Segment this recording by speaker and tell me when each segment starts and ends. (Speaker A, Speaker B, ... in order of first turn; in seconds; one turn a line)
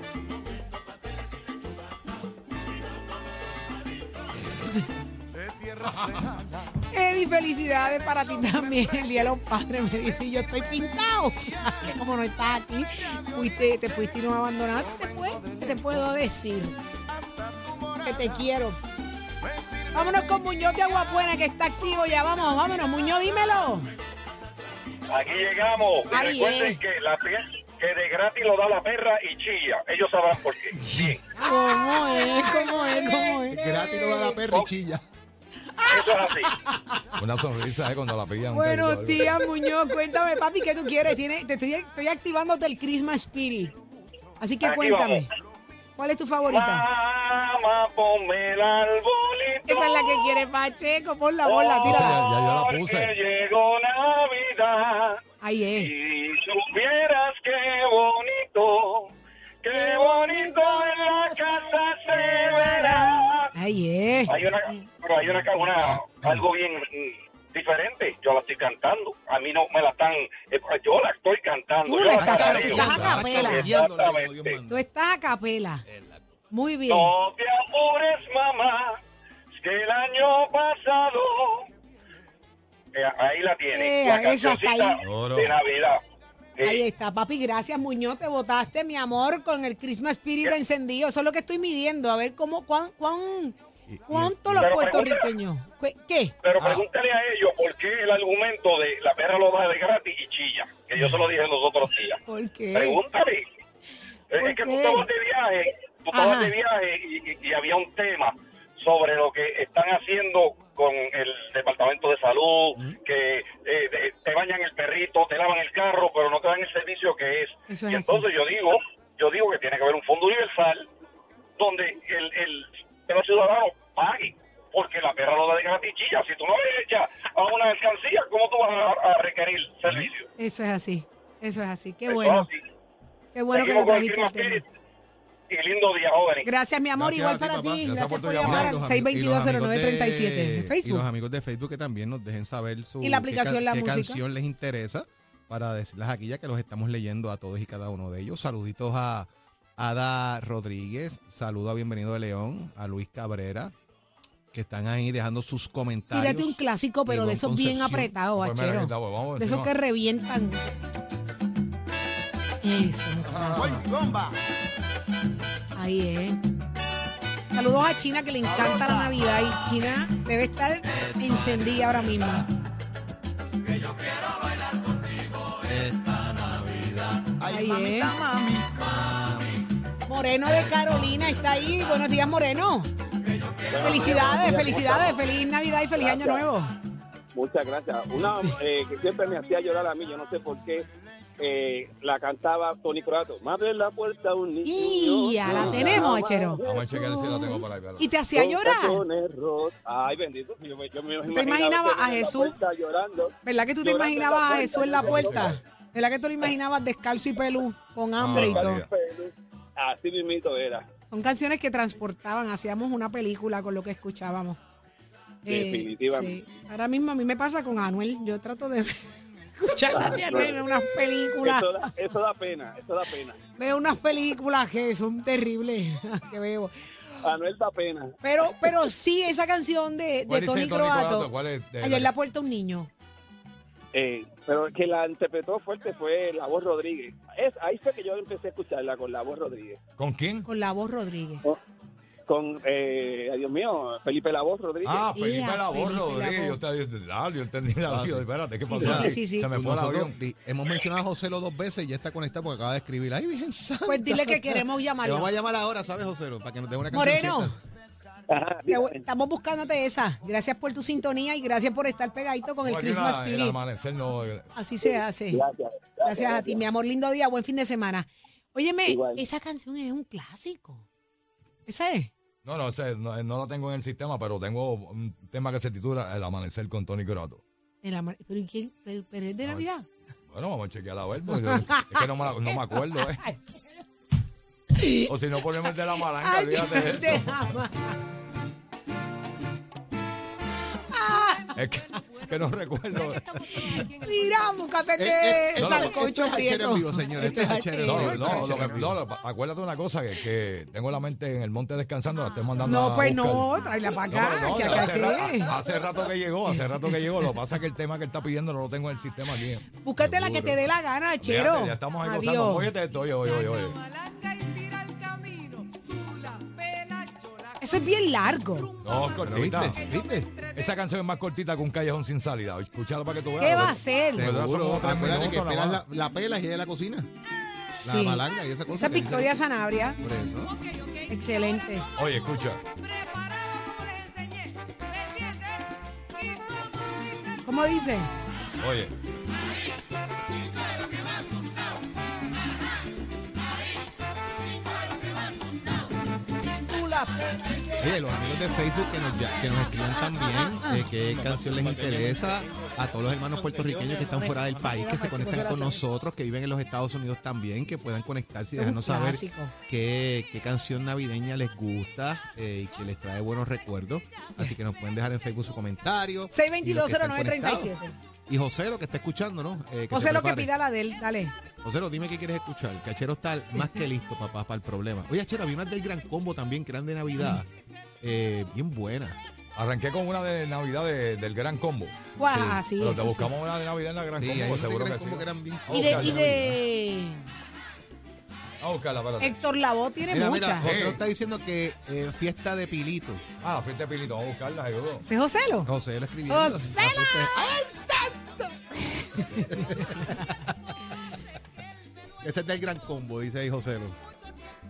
Speaker A: 5.4-6.7
Speaker B: 6.9-16.8
Speaker A: 8.6-9.2
Speaker A: 11.4-11.8
Speaker A: 13.2-14.0
Speaker A: 14.7-15.9
Speaker A: 17.1-18.5
Speaker B: 18.0-18.8
Speaker A: 19.4-20.5
Speaker B: 19.9-23.9
Speaker C: 25.1-31.2
Speaker B: 26.1-26.8
Speaker B: 31.0-34.4
Speaker D: 33.5-35.0
Speaker B: 35.8-36.3
Speaker C: 35.9-36.5
Speaker E: 37.2-39.4
Speaker B: 38.5-43.8
Speaker B: 44.4-45.3
Speaker C: 44.6-45.2
Speaker B: 46.0-46.9
Speaker C: 46.5-50.4
Speaker B: 49.7-52.2
Speaker C: 51.5-55.2
Speaker E: 51.8-53.1
Speaker B: 55.4-55.9
Speaker C: 55.8-59.1
Speaker C: 59.6-63.5
Speaker B: 59.7-64.8
Speaker C: 64.3-74.6
Speaker E: 66.2-66.5
Speaker B: 71.9-73.7
Speaker D: 72.2-74.9
Speaker E: 72.8-73.2
Speaker B: 74.7-75.8
Speaker D: 75.9-76.2
Speaker B: 76.5-77.1
Speaker C: 76.9-79.0
Speaker C: 79.6-81.7
Speaker C: 82.9-86.0
Speaker B: 83.7-85.0
Speaker E: 85.0-85.6
Speaker C: 86.6-86.8
Speaker B: 86.6-93.6
Speaker D: 93.9-94.8
Speaker B: 94.1-96.3
Speaker C: 94.6-95.3
Speaker C: 96.4-102.2
Speaker E: 96.6-96.8
Speaker B: 102.3-103.0
Speaker C: 102.7-103.5
Speaker C: 104.3-120.9
Speaker B: 104.4-105.1
Speaker B: 106.1-106.5
Speaker B: 117.7-118.3
Speaker C: 121.6-130.3
Speaker B: 130.4-132.5
Speaker C: 132.1-132.5
Speaker B: 133.3-134.6
Speaker C: 133.5-134.7
Speaker C: 135.5-136.5
Speaker B: 136.4-141.1
Speaker D: 136.9-137.9
Speaker E: 137.8-138.8
Speaker D: 138.4-153.7
Speaker B: 143.0-144.2
Speaker D: 154.5-158.2
Speaker B: 156.1-160.7
Speaker E: 158.3-159.7
Speaker B: 162.6-163.8
Speaker E: 163.3-163.7
Speaker A: 163.6-164.4
Speaker B: 165.8-166.4
Speaker B: 167.5-172.5
Speaker A: 168.4-169.2
Speaker D: 175.6-177.3
Speaker A: 177.4-179.1
Speaker B: 177.5-178.1
Speaker D: 179.0-179.6
Speaker B: 180.1-182.9
Speaker F: 183.7-185.2
Speaker B: 183.8-186.7
Speaker F: 186.0-186.5
Speaker F: 187.3-190.8
Speaker B: 188.2-188.5
Speaker F: 191.4-197.5
Speaker B: 194.7-196.6
Speaker E: 195.5-196.0
Speaker E: 196.6-198.1
Speaker B: 197.4-199.0
Speaker F: 198.3-205.4
Speaker B: 201.2-202.6
Speaker B: 203.4-208.8
Speaker E: 204.9-205.6
Speaker E: 208.2-208.9
Speaker F: 208.3-210.9
Speaker B: 211.1-214.6
Speaker B: 215.5-219.1
Speaker F: 215.5-216.4
Speaker B: 219.6-221.9
Speaker F: 219.9-220.7
Speaker F: 221.4-223.4
Speaker B: 223.6-226.7
Speaker F: 227.2-228.2
Speaker B: 228.2-232.9
Speaker E: 230.3-232.1
Speaker F: 233.9-239.8
Speaker E: 240.0-240.5
Speaker B: 240.4-241.5
Speaker F: 242.3-245.1
Speaker E: 244.8-250.2
Speaker B: 245.1-246.6
Speaker D: 247.9-257.5
Speaker B: 248.6-249.5
Speaker B: 253.9-255.3
Speaker B: 256.9-257.5
Speaker F: 258.3-259.0
Speaker B: 258.7-263.6
Speaker E: 262.6-264.5
Speaker B: 264.6-265.4
Speaker F: 264.8-266.6
Speaker B: 266.0-270.9
Speaker F: 268.9-269.2
Speaker B: 271.7-272.1
Speaker E: 272.4-277.4
Speaker B: 277.8-279.9
Speaker E: 280.3-283.2
Speaker B: 281.3-283.4
Speaker B: 284.8-285.1
Speaker E: 285.1-287.5
Speaker B: 286.1-287.9
Speaker B: 290.9-291.6
Speaker E: 291.6-293.3
Speaker B: 293.6-298.8
Speaker D: 295.0-299.0
Speaker E: 295.6-295.9
Speaker E: 297.8-310.7
Speaker B: 302.6-305.6
Speaker B: 309.8-312.7
Speaker E: 311.2-313.8
Speaker B: 314.2-314.5
Speaker B: 317.6-318.8
Speaker E: 318.8-319.8
Speaker D: 319.2-320.3
Speaker E: 320.5-325.8
Speaker B: 323.4-324.3
Speaker D: 324.1-327.1
Speaker B: 327.7-330.0
Speaker D: 327.8-329.4
Speaker D: 330.0-330.5
Speaker B: 330.9-331.9
Speaker E: 332.0-332.6
Speaker B: 333.0-335.3
Speaker B: 337.4-338.1
Speaker E: 338.6-338.9
Speaker B: 346.7-347.6
Speaker D: 347.8-367.7
Speaker B: 350.0-350.9
Speaker B: 354.2-355.8
Speaker B: 358.5-359.5
Speaker B: 366.3-368.0
Speaker D: 368.3-370.5
Speaker B: 369.9-371.3
Speaker D: 371.6-377.5
Speaker D: 378.0-379.2
Speaker E: 379.6-382.0
Speaker B: 382.2-383.3
Speaker D: 382.2-382.6
Speaker E: 382.7-386.6
Speaker D: 384.1-386.5
Speaker B: 385.7-387.2
Speaker E: 388.6-389.4
Speaker B: 389.2-390.7
Speaker D: 390.1-393.3
Speaker E: 390.6-391.0
Speaker E: 393.4-395.0
Speaker B: 395.0-395.7
Speaker D: 395.6-398.0
Speaker B: 396.3-397.7
Speaker B: 398.8-400.3
Speaker D: 399.5-400.2
Speaker D: 402.2-404.0